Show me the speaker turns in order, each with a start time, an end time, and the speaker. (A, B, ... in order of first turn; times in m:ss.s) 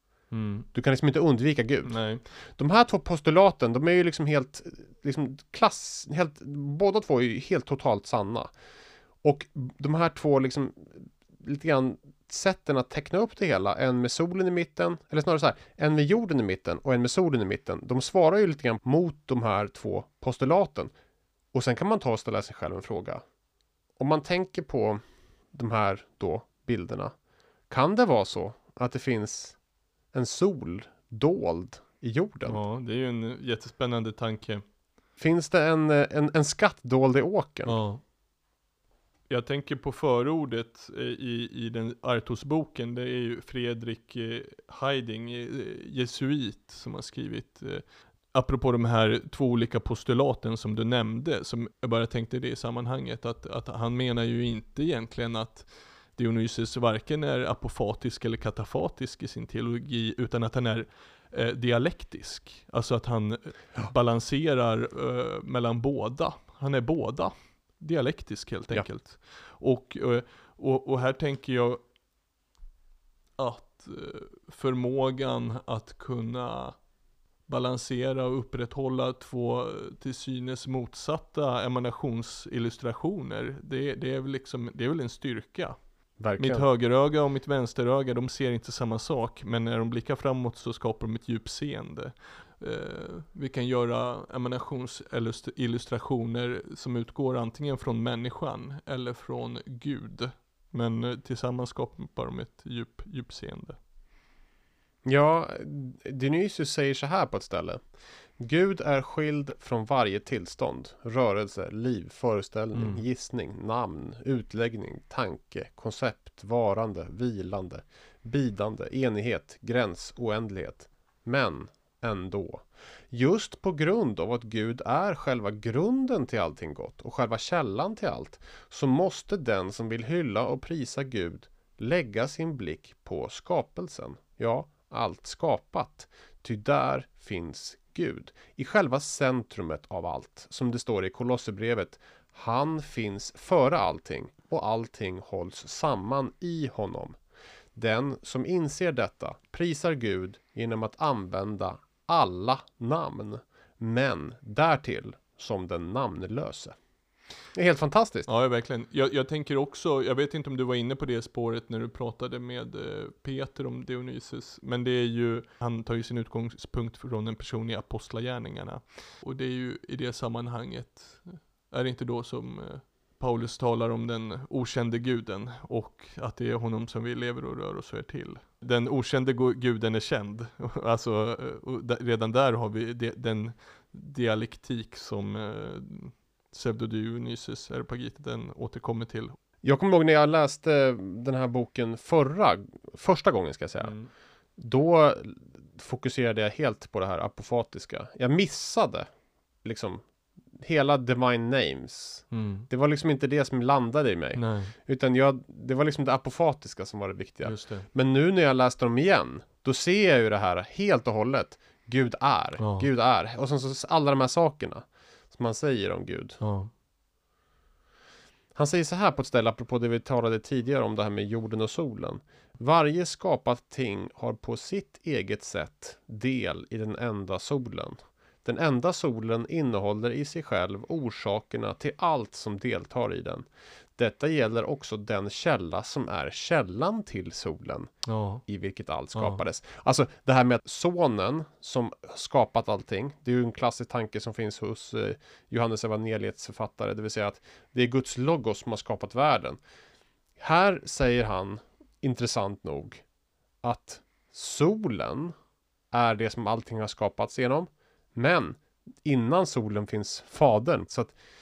0:00.3-0:00.7 A
0:00.7-0:08.5 B
0:01.8-0:02.2 A
0:09.2-0:20.9 B
0:21.5-0:23.2 B
0:24.0-0:25.0 B
0:25.5-0:27.1 B
0:27.7-0:29.6 B
0:30.1-0:32.6 B
0:32.4-0:34.6 A
0:35.2-0:37.8 B
0:37.6-0:38.0 A
0:39.3-1:11.8 A
1:13.4-1:16.8 A
1:17.5-1:25.8 A
1:26.2-1:26.6 B
1:26.4-1:43.8 A
1:45.0-1:47.8 B
1:48.4-2:27.2 B
1:52.7-1:53.0 A
2:27.7-2:36.8 B
2:37.5-2:38.3 B
2:38.3-3:09.4 A
3:09.6-3:13.9 B
3:13.8-3:14.1 A
3:14.6-3:19.1 B
3:19.6-3:20.0 B
3:20.6-3:36.4 B
3:22.3-3:22.7 A
3:24.4-3:24.7 A
3:27.4-3:27.9 A
3:32.6-3:32.9 A
3:36.4-3:36.7 A
3:38.5-3:57.9 B
3:58.0-3:58.4 A
3:58.5-4:09.6 B
3:59.1-3:59.4 A
4:10.4-4:13.0 B
4:13.6-4:15.3 B
4:15.9-4:21.1 B